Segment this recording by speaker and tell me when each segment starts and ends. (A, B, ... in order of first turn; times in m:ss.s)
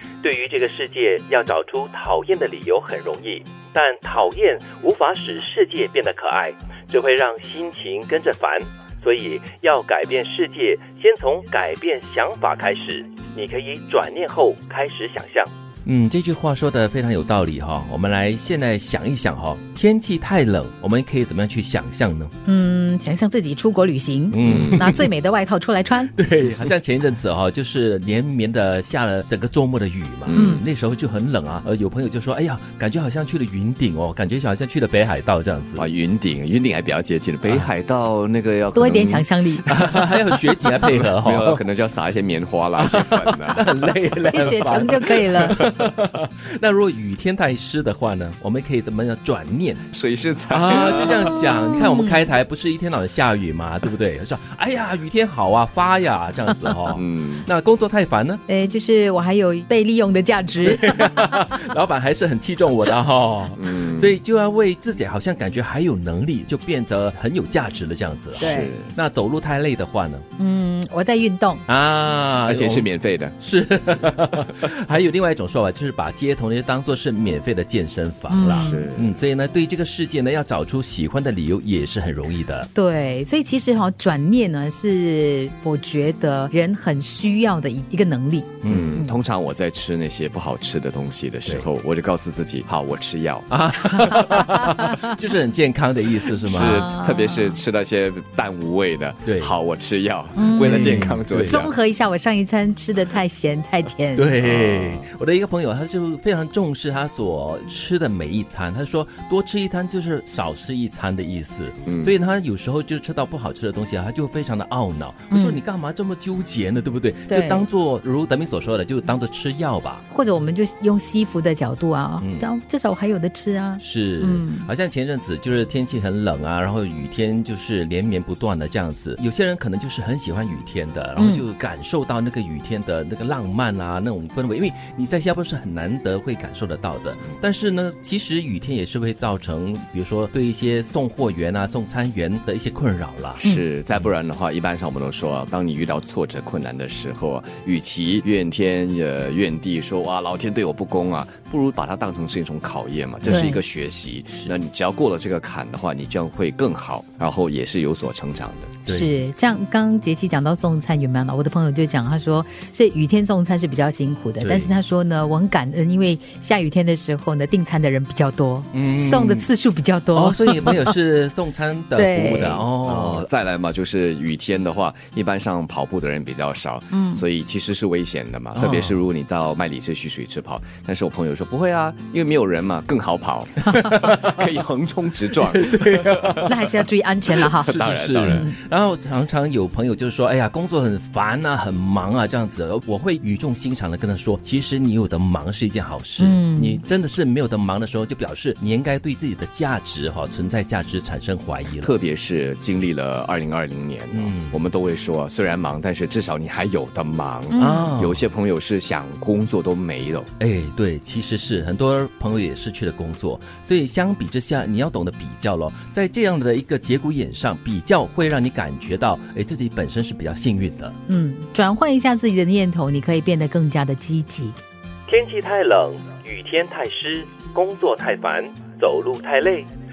0:00.2-0:15.5 A
0:15.9-0:22.3 B
0:22.4-0:26.1 C
0:24.3-0:25.1 B
0:24.4-0:24.8 D
0:26.1-0:35.9 B
0:30.2-0:30.6 D
0:30.3-0:30.6 C
0:35.8-0:40.1 D
0:38.7-0:39.6 C
0:39.7-0:41.6 B
0:40.7-0:43.6 D
0:42.8-0:49.9 B
0:44.2-0:45.7 C
0:49.9-0:51.4 D
0:50.5-0:58.4 B
0:51.5-0:52.2 C
0:56.9-0:57.5 D
0:58.5-1:01.2 C
1:00.6-1:10.2 B
1:03.6-1:04.2 D
1:08.4-1:08.9 D
1:08.4-1:08.7 C
1:10.4-1:11.6 C
1:11.7-1:22.7 B
1:12.4-1:13.4 D
1:18.3-1:18.8 C
1:18.5-1:19.1 D
1:22.7-1:29.1 C
1:28.6-1:29.0 B
1:28.7-1:33.5 D
1:33.5-1:36.9 B
1:36.5-1:41.7 D
1:36.6-1:37.6 C
1:39.2-1:39.5 B
1:40.4-1:44.3 C
1:40.6-1:41.6 B
1:44.1-2:00.0 B
1:44.4-1:45.0 D
1:51.9-1:52.1 D
1:55.3-1:55.6 C
1:57.3-1:57.6 C
2:00.1-2:04.7 C
2:02.2-2:02.5 B
2:03.8-2:23.4 B
2:11.2-2:11.4 C
2:23.4-2:38.7 D
2:33.3-2:33.6 C
2:38.9-2:39.1 B
2:38.9-2:50.9 C
2:44.4-2:44.8 B
2:48.7-2:49.5 B
2:50.1-2:53.3 B
2:52.0-2:52.6 C
2:52.8-3:06.4 D
2:56.9-2:57.2 C
2:58.6-2:59.0 B
3:03.7-3:04.4 B
3:05.6-3:06.7 B
3:06.4-3:07.7 C
3:07.4-3:21.9 B
3:07.6-3:08.5 D
3:08.3-3:08.5 C
3:16.2-3:16.8 C
3:21.8-3:30.3 D
3:24.1-3:24.6 B
3:27.5-3:28.2 B
3:27.5-3:27.9 C
3:30.4-3:41.0 B
3:41.1-3:44.6 C
3:45.1-3:49.7 A